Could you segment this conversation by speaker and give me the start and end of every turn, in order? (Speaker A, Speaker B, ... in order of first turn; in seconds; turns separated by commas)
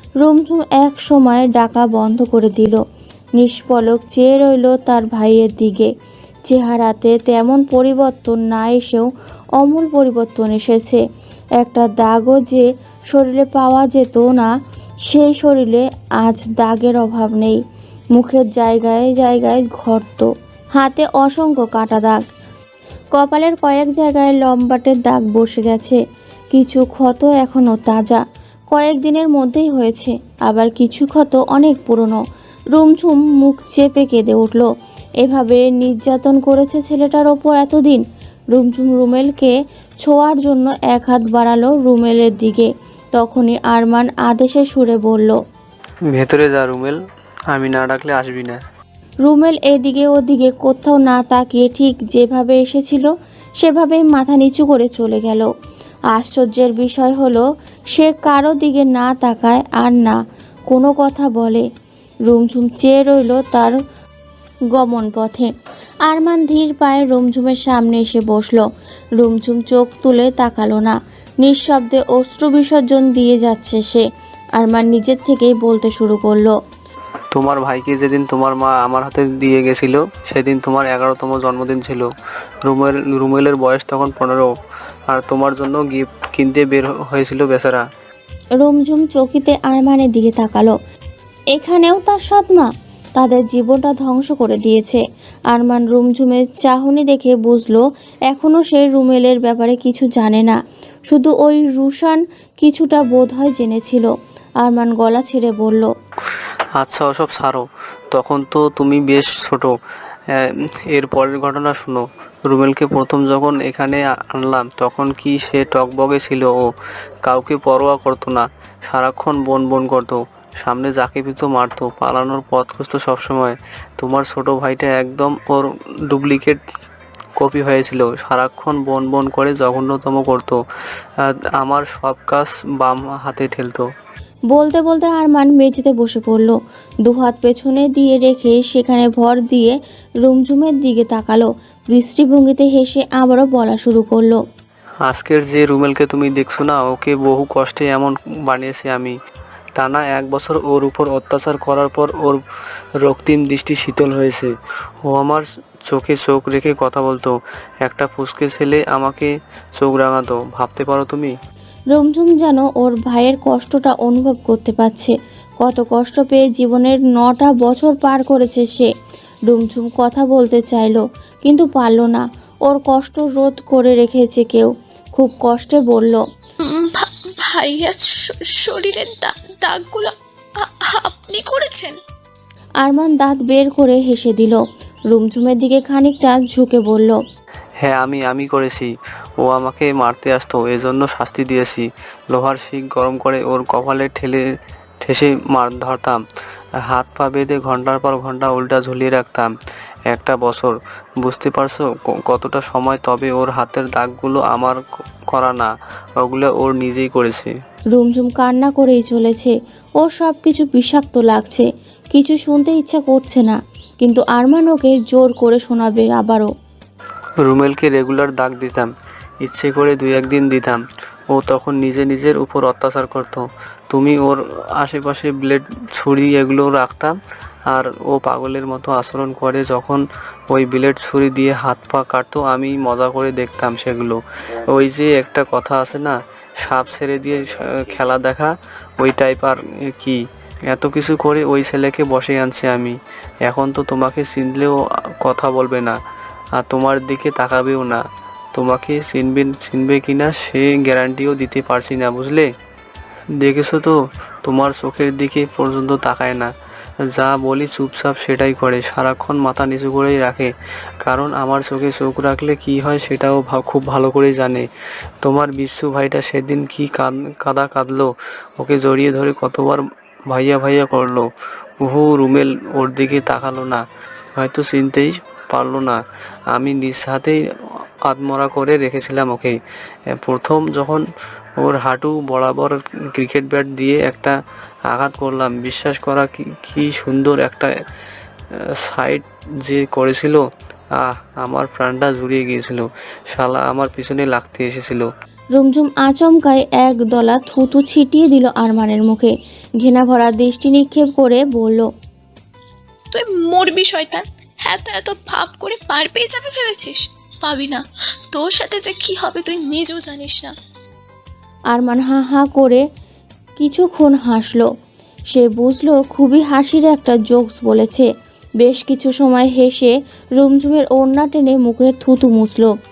Speaker A: 0.2-2.8, Speaker A: 3.4-5.9, Speaker A: 6.5-9.1, Speaker A: 9.6-11.0, Speaker A: 11.6-14.5, Speaker A: 15.1-17.6, Speaker A: 18.1-22.2, Speaker A: 23.2-26.0, Speaker A: 26.5-28.2, Speaker A: 28.7-32.2, Speaker A: 32.8-34.7, Speaker A: 35.2-38.0, Speaker A: 38.5-45.4, Speaker B: 46.1-47.0, Speaker B: 47.5-48.6, Speaker A: 49.2-55.5, Speaker A: 56.1-60.2, Speaker A: 60.7-61.6, Speaker A: 62.3-63.8, Speaker A: 64.8-65.5, Speaker A: 66.1-68.6, Speaker A: 69.2-74.0, Speaker A: 74.6-76.5, Speaker B: 77.3-82.1, Speaker B: 82.7-84.5, Speaker B: 85.1-87.8, Speaker A: 88.6-90.7, Speaker A: 91.5-100.6, Speaker A: 101.1-104.1, Speaker A: 104.6-105.9, Speaker B: 106.8-109.7, Speaker B: 110.3-116.6, Speaker B: 117.3-126.6, Speaker B: 127.4-130.6, Speaker B: 131.2-133.9, Speaker A: 134.5-144.4, Speaker B: 145.1-149.2, Speaker B: 149.8-152.4, Speaker B: 153.0-154.5, Speaker B: 155.1-157.3, Speaker B: 157.8-161.3, Speaker A: 161.9-168.9, Speaker A: 169.5-176.2, Speaker C: 176.7-182.0, Speaker A: 182.8-187.2, Speaker B: 187.8-188.9, Speaker B: 189.4-194.4, Speaker B: 195.0-196.2, Speaker B: 196.9-199.5, Speaker B: 200.1-207.5, Speaker A: 207.9-216.5, Speaker B: 217.4-218.9, Speaker B: 219.4-227.1, Speaker B: 227.7-234.2, Speaker B: 234.7-242.9, Speaker B: 243.4-246.0, Speaker B: 246.6-248.0, Speaker B: 248.6-252.5, Speaker B: 253.4-256.5, Speaker B: 257.1-260.5, Speaker B: 261.0-264.6, Speaker B: 265.2-271.3, Speaker B: 271.8-273.8, Speaker B: 274.4-276.0, Speaker B: 276.5-277.4, Speaker B: 278.1-279.6, Speaker B: 280.1-281.0, Speaker B: 281.6-284.4, Speaker B: 284.9-287.7, Speaker B: 288.8-290.4, Speaker B: 291.0-295.1, Speaker A: 295.6-301.9, Speaker C: 303.1-307.8, Speaker C: 308.3-310.5, Speaker A: 311.7-312.8, Speaker A: 313.6-314.7, Speaker A: 315.3-318.1, Speaker A: 318.6-322.7